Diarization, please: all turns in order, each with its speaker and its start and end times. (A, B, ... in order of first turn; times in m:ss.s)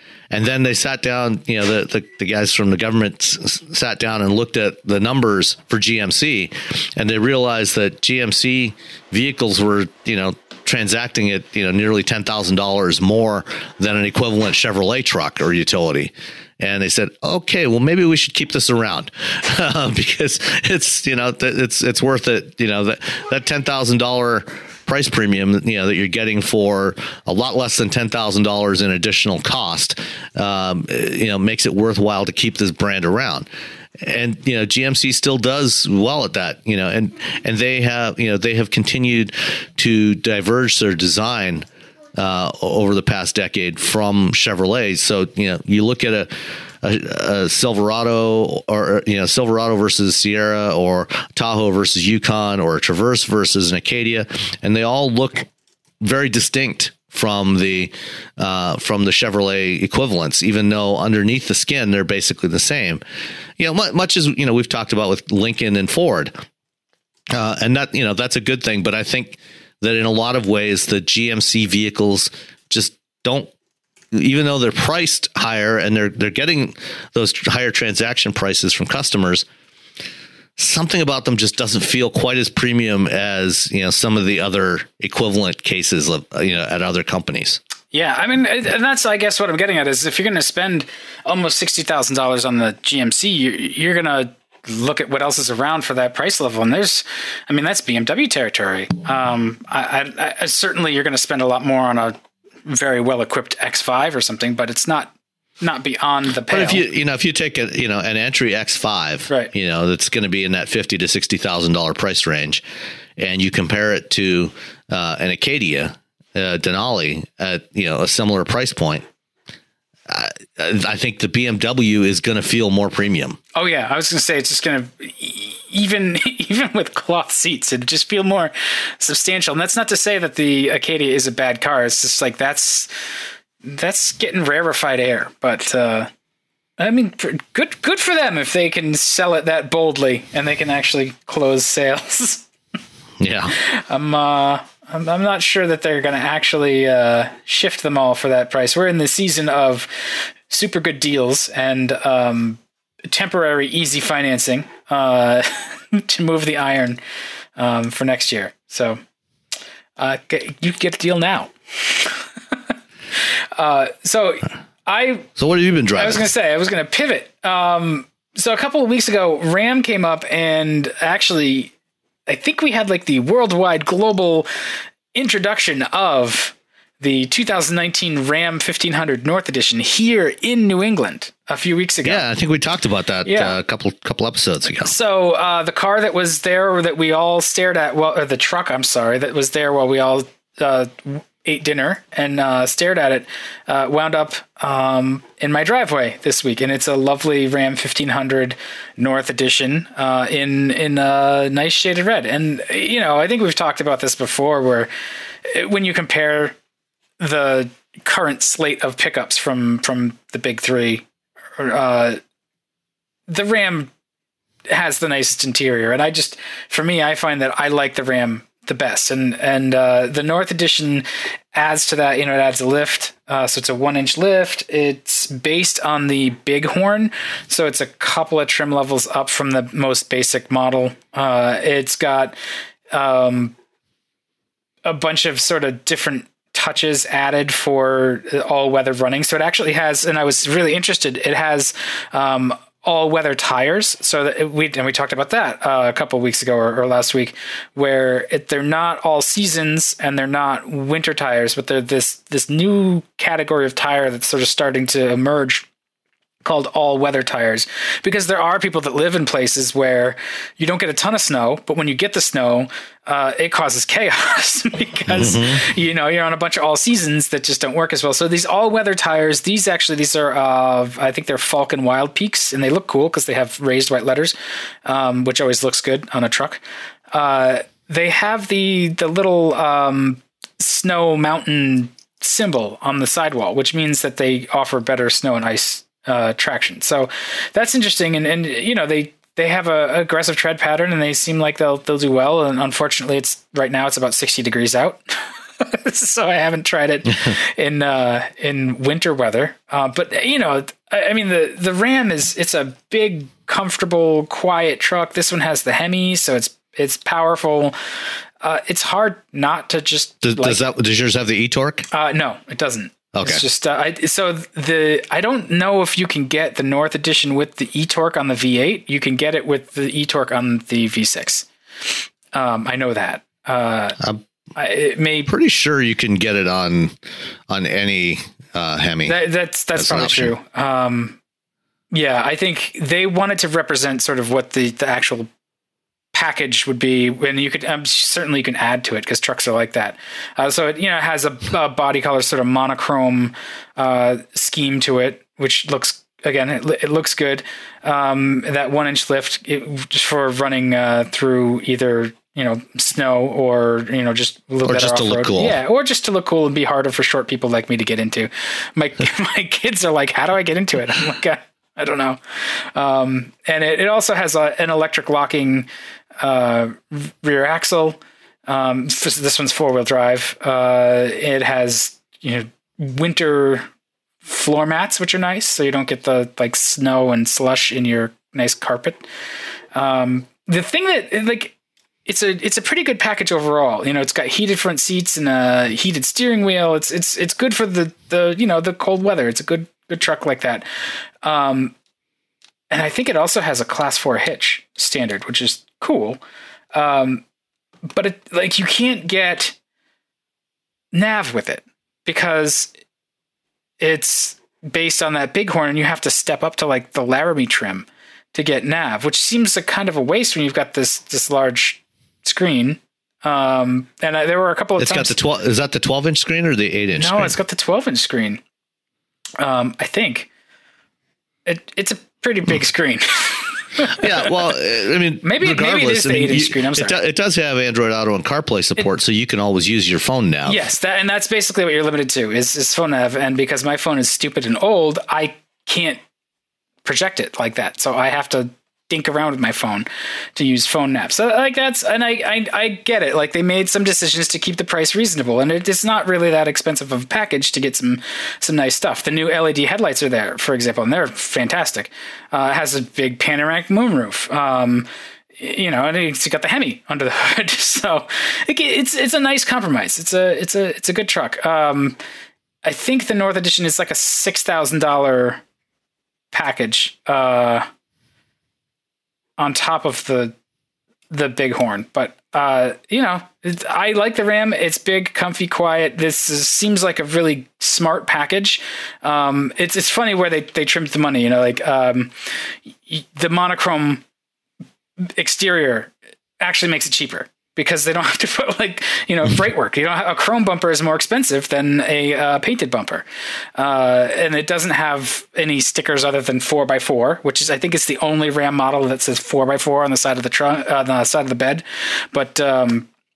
0:00.3-0:33.5 A
0:34.0-0:55.5 A
0:56.0-1:03.0 A
1:03.6-1:06.3 A
1:07.3-1:13.5 A
1:14.1-1:19.4 A
1:20.6-1:27.6 A
1:27.9-1:46.8 B
1:46.5-1:52.6 A
1:53.2-1:59.1 A
2:00.1-2:03.4 A
2:03.6-2:12.9 B
2:13.6-2:16.1 B
2:16.8-2:22.5 B
2:23.2-2:23.5 A
2:23.5-2:37.0 B
2:37.6-2:39.0 B
2:40.0-2:42.6 B
2:43.5-2:45.3 B
2:45.4-2:46.2 A
2:46.0-2:51.7 B
2:52.3-2:54.5 B
2:55.1-3:02.2 B
3:02.0-3:04.9 A
3:03.3-3:03.6 B
3:04.8-3:24.9 B
3:25.5-3:26.6 B
3:27.2-3:31.0 B
3:31.6-3:32.2 B
3:33.3-3:33.9 B
3:34.7-3:52.4 B
3:52.9-3:53.6 B
3:54.8-4:15.7 B
4:16.4-5:07.8 B
4:25.1-4:25.6 A
5:08.4-5:10.6 B
5:10.2-5:11.9 A
5:11.9-5:24.0 B
5:13.1-5:13.4 A
5:24.6-5:25.3 B
5:25.3-5:26.9 A
5:27.5-5:29.2 A
5:29.1-5:31.2 B
5:29.8-5:30.3 A
5:31.9-5:35.3 B
5:36.1-6:05.7 B
5:54.6-5:55.6 A
6:06.2-6:13.7 B
6:14.2-6:19.0 B
6:19.8-6:21.5 B
6:22.1-6:30.7 B
6:31.2-6:31.7 B
6:32.7-6:36.2 B
6:36.7-6:37.2 B
6:37.9-6:39.6 B
6:40.9-6:42.7 B
6:43.8-6:55.2 B
6:54.8-6:57.3 A
6:57.0-6:58.4 B
6:59.4-7:00.3 B
7:01.5-7:04.3 B
7:03.9-7:10.6 A
7:05.2-7:07.0 B
7:10.4-7:16.0 B
7:16.8-7:42.0 B
7:42.6-7:45.4 B
7:46.3-7:47.7 B
7:49.4-7:50.4 B
7:51.1-8:02.3 B
8:02.9-8:04.0 B
8:05.0-8:13.0 B
8:13.6-8:22.9 B